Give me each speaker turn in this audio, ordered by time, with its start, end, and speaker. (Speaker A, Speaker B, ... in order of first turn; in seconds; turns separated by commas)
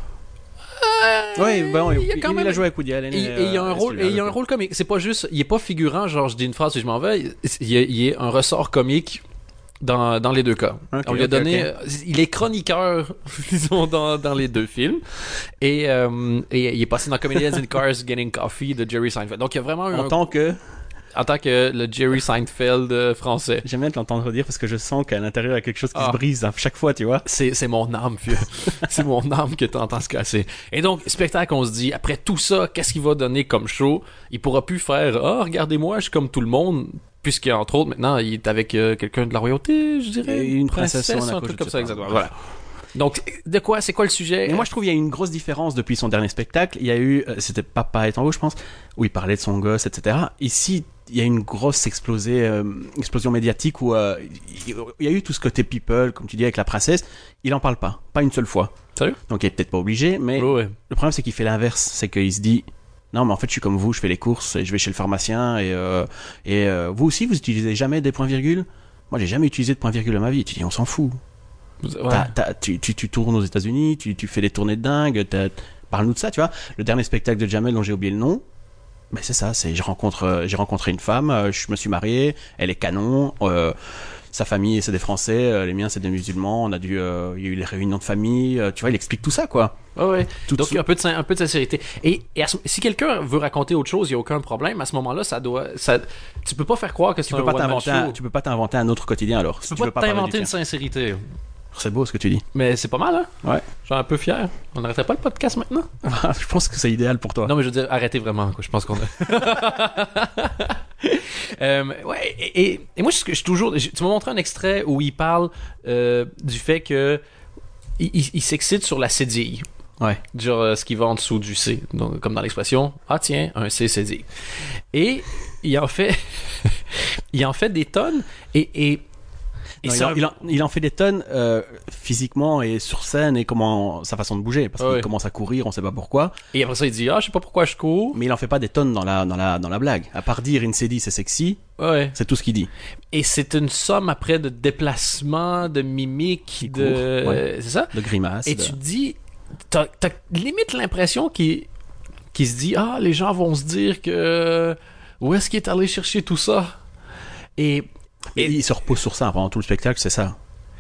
Speaker A: 0.8-9.2, Speaker B: 1.4-4.4, Speaker A: 9.8-20.2, Speaker B: 10.9-11.7, Speaker B: 19.9-20.6, Speaker A: 21.1-23.6, Speaker B: 23.6-27.3, Speaker A: 27.2-42.3, Speaker B: 40.2-42.3, Speaker A: 43.0-44.7, Speaker B: 44.5-58.7, Speaker B: 59.3-71.2, Speaker A: 60.4-60.8, Speaker A: 71.8-72.3, Speaker B: 72.1-78.4, Speaker B: 79.1-83.7, Speaker B: 84.3-89.7, Speaker A: 90.0-98.2, Speaker B: 90.5-90.8, Speaker B: 97.3-100.5, Speaker A: 99.7-101.2, Speaker B: 101.7-102.4, Speaker A: 102.5-105.9, Speaker B: 106.0-107.5, Speaker A: 107.5-117.2, Speaker A: 118.0-119.7, Speaker A: 120.3-124.3, Speaker A: 124.9-129.0, Speaker A: 129.8-130.3, Speaker B: 129.8-136.4, Speaker A: 134.8-135.1, Speaker A: 136.5-138.2, Speaker B: 138.1-141.6, Speaker A: 141.8-142.2, Speaker B: 142.2-142.7, Speaker A: 143.1-147.9, Speaker B: 146.6-148.8, Speaker A: 148.4-149.2, Speaker A: 149.7-151.7, Speaker A: 152.3-156.7, Speaker A: 157.6-157.9, Speaker B: 158.3-160.3